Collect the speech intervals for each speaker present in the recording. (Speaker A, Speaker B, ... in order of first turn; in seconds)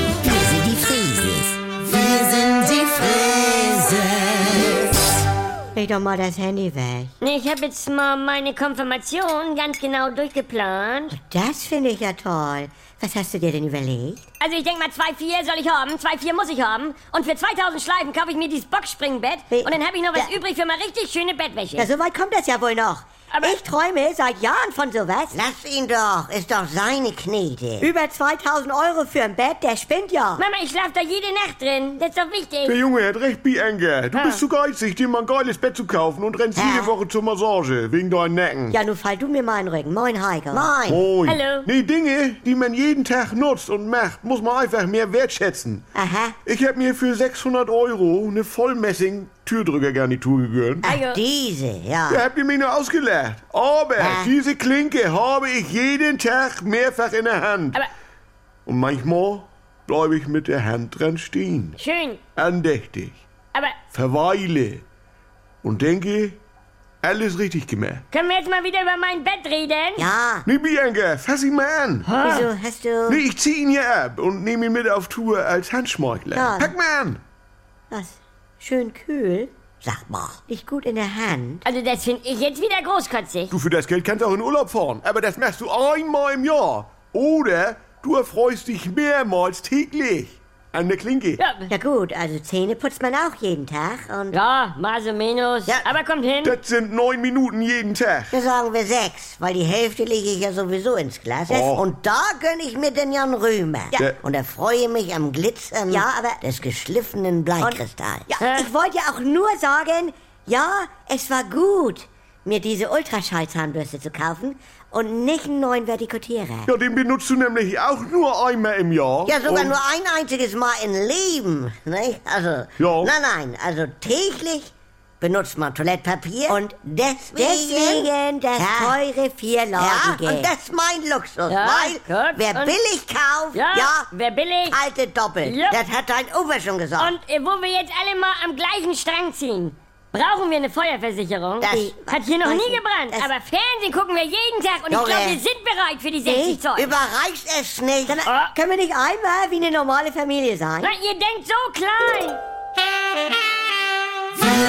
Speaker A: 0.2-4.7, 25.3-27.9, 36.6-36.9, 40.5-41.0, 50.9-52.2, 54.0-54.3, 79.8-80.4, 98.3-108.2, 119.3-124.7, 125.2-134.1, 134.7-137.2, 141.6-141.9, 144.9-145.4, 146.7-148.2
Speaker B: 5.7-7.1, 11.1-14.2, 19.5-20.3, 21.8-25.4, 27.8-30.4, 38.7-40.7, 45.9-46.3, 70.0-70.5, 72.2-73.2, 76.3-76.7, 77.9-79.5, 80.4-81.6, 91.7-94.3, 105.9-106.4, 107.6-116.7, 127.3-130.5, 141.7-143.3, 146.2-146.6, 148.1-150.9
Speaker C: 7.2-11.2, 14.4-21.9, 23.3-23.6, 30.4-32.8, 34.1-34.4, 41.2-41.7, 50.8-51.2, 61.8-62.2, 68.1-70.1, 72.0-72.5, 81.6-83.5, 91.4-91.7, 94.3-96.6, 131.5-132.8, 133.5-134.8, 135.4-135.8, 137.0-146.9, 148.2-148.5, 150.8-152.4
Speaker D: 32.6-38.8, 40.8-45.8, 46.4-50.9, 52.1-57.8, 58.6-61.7, 62.4-63.2, 63.9-64.8, 65.6-66.4, 67.0-68.0, 70.5-72.1, 73.1-77.2, 83.5-91.4, 96.4-98.4, 101.5-101.8, 103.9-104.2, 116.7-119.8, 122.8-123.1